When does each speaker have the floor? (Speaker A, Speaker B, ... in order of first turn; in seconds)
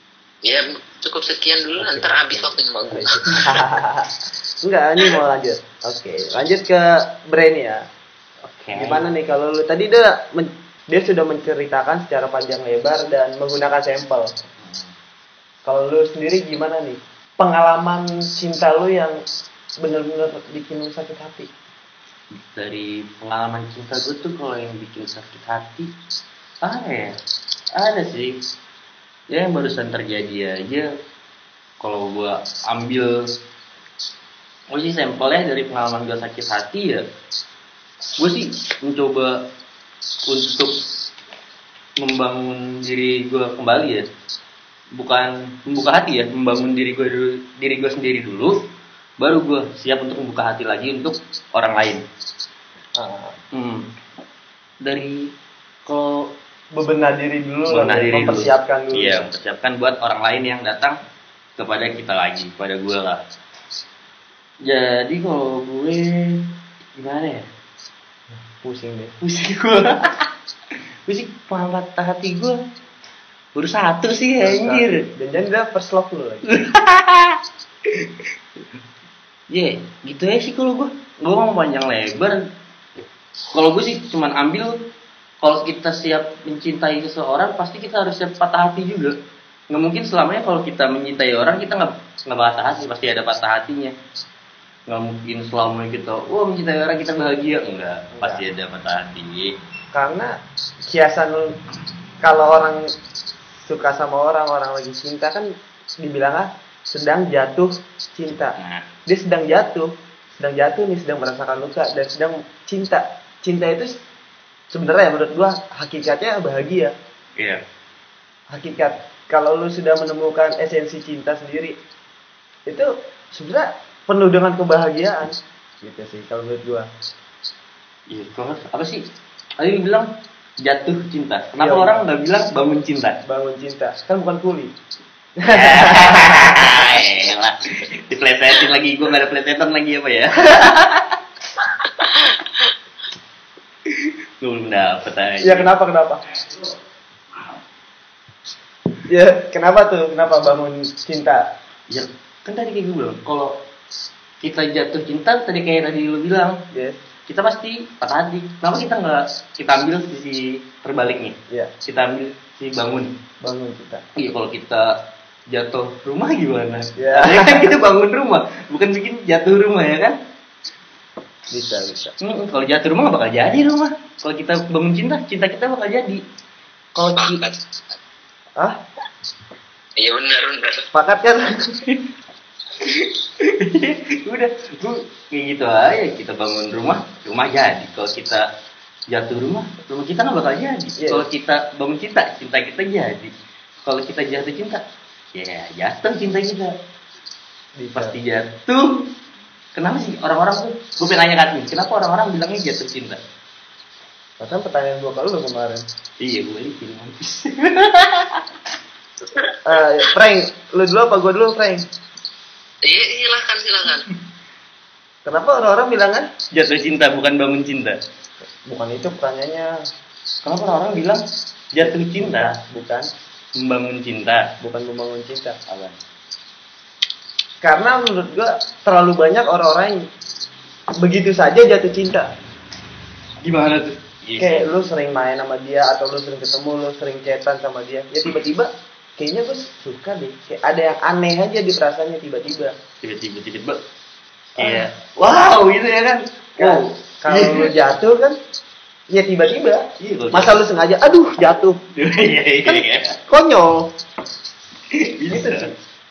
Speaker A: 0.4-3.6, 141.6-142.7, 177.2-178.0, 180.0-180.8, 212.8-214.1
Speaker B: 1.8-4.1, 4.6-7.8, 8.7-14.3, 15.6-19.2, 19.8-21.5, 53.0-53.4, 56.7-59.3, 68.3-69.2, 74.4-76.5, 98.1-98.4, 99.9-100.3, 100.9-101.6, 102.2-102.8, 103.6-113.9, 114.7-116.9, 118.5-121.8, 122.7-126.9, 131.6-131.9, 133.2-134.7, 135.4-137.0, 145.4-146.2, 149.1-151.5, 156.7-157.0, 163.4-164.0, 167.0-167.7, 171.5-172.1, 176.9-177.4, 180.9-181.8, 191.0-191.2, 197.8-198.2, 204.4-205.8, 209.7-211.9, 215.2-216.3, 218.6-219.7, 221.8-223.1, 224.6-225.6, 227.6-230.0, 231.0-232.3, 234.4-242.7, 244.6-244.9, 246.6-248.4, 249.1-251.8, 252.7-253.9, 255.3-255.8
Speaker C: 8.4-9.0, 14.6-14.9, 22.5-25.9, 26.6-27.2, 27.8-28.4, 29.3-30.9, 31.8-33.3, 34.7-37.0, 38.2-39.5, 40.3-40.8, 42.0-44.1, 45.0-48.6, 49.2-52.0, 53.5-53.9, 54.8-55.2, 55.9-56.3, 57.7-61.0, 61.6-63.2, 64.6-67.5, 69.2-70.3, 71.1-72.6, 73.5-75.0, 76.5-77.4, 79.5-82.4, 83.5-84.8, 85.4-89.1, 89.7-93.9, 94.9-99.5, 108.5-108.9, 128.1-129.0, 129.6-130.1, 130.6-133.2, 135.4-141.2, 143.9-145.7, 151.9-153.6, 154.4-156.6, 157.3-163.1, 164.2-164.9, 165.5-170.2, 172.2-176.2, 182.8-188.4, 189.1-193.3, 193.8-194.8, 195.3-196.7, 197.9-199.1, 199.7-203.2, 206.2-208.4, 216.5-218.0, 220.4-221.2, 221.7-222.6, 223.6-224.4, 225.7-226.0, 233.4-234.7, 243.0-243.8, 244.6-247.7, 250.0-250.6, 251.9-253.2, 254.9-255.7